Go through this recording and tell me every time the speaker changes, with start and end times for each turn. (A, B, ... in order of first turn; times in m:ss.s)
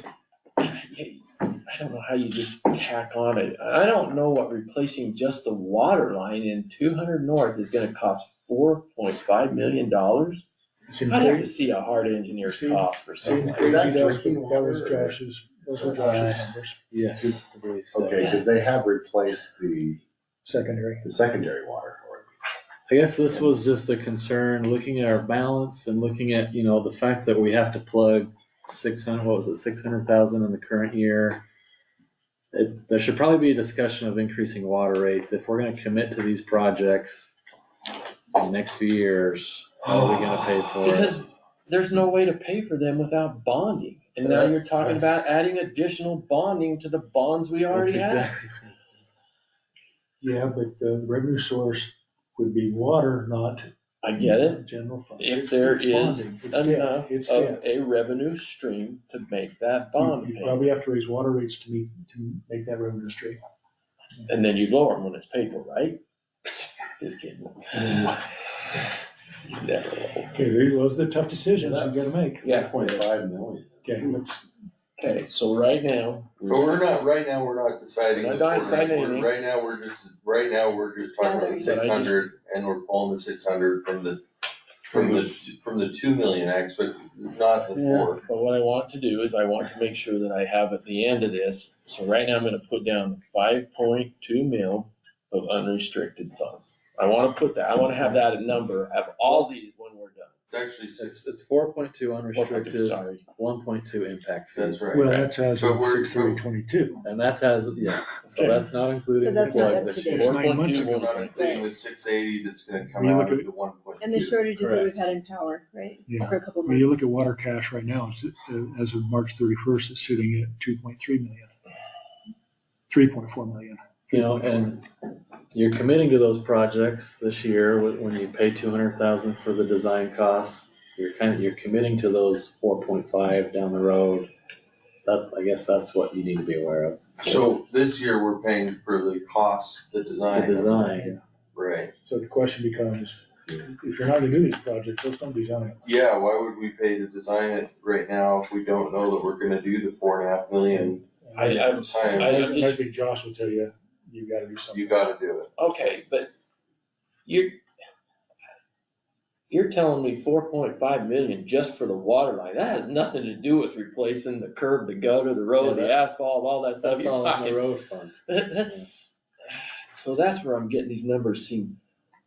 0:00.6-0:10.4 A
0:10.9-0:11.5 B
0:11.1-0:14.0 A
0:12.4-0:16.8 B
0:13.2-0:13.6 C
0:13.6-0:15.2 D
0:15.7-0:16.2 D
0:16.0-0:18.4 C
0:17.9-0:20.0 D
0:20.4-0:21.0 B
0:21.0-0:22.3 D
0:22.9-0:31.4 C
0:32.5-0:37.3 C
0:38.3-0:41.2 C
0:40.0-0:40.5 E
0:40.8-0:48.3 A
0:44.2-0:45.1 C
0:47.7-0:48.8 C
0:50.2-0:57.6 B
0:54.0-0:54.6 A
0:55.2-1:00.7 A
0:59.9-1:03.4 B
1:04.3-1:08.8 A
1:07.7-1:08.2 B
1:09.5-1:10.4 A
1:10.3-1:12.5 B
1:11.6-1:13.1 A
1:12.5-1:14.0 D
1:13.8-1:14.5 B
1:15.0-1:16.8 A
1:16.5-1:24.2 E
1:18.1-1:19.3 A
1:21.2-1:21.8 F
1:21.6-1:22.3 A
1:24.9-1:28.2 E
1:24.9-1:25.5 A
1:27.7-1:40.4 A
1:40.5-1:41.2 E
1:41.0-1:45.0 C
1:42.3-1:43.2 A
1:44.6-1:46.4 E
1:44.9-1:47.0 B
1:47.0-1:50.4 C
1:48.3-1:48.7 B
1:49.2-1:50.4 F
1:50.0-1:51.3 B
1:50.1-1:51.6 A
1:50.5-1:54.4 E
1:51.3-1:51.7 F
1:52.9-1:53.5 B
1:54.0-1:57.0 F
1:54.6-1:54.9 C
1:56.1-2:01.5 B
2:02.9-2:04.7 B
2:04.1-2:04.9 C
2:05.5-2:14.3 C
2:15.1-2:17.4 C
2:17.2-2:20.8 E
2:20.3-2:21.2 C
2:20.7-2:21.2 B
2:21.6-2:21.9 E
2:22.0-2:25.8 B
2:25.8-2:31.0 E
2:30.7-2:35.1 B
2:31.4-2:32.8 A
2:31.6-2:32.6 E
2:34.7-2:35.5 E
2:35.6-2:36.3 A
2:37.3-2:37.6 A
2:39.5-2:47.7 A
2:45.6-2:46.0 C
2:46.8-2:48.9 C
2:48.3-2:51.8 A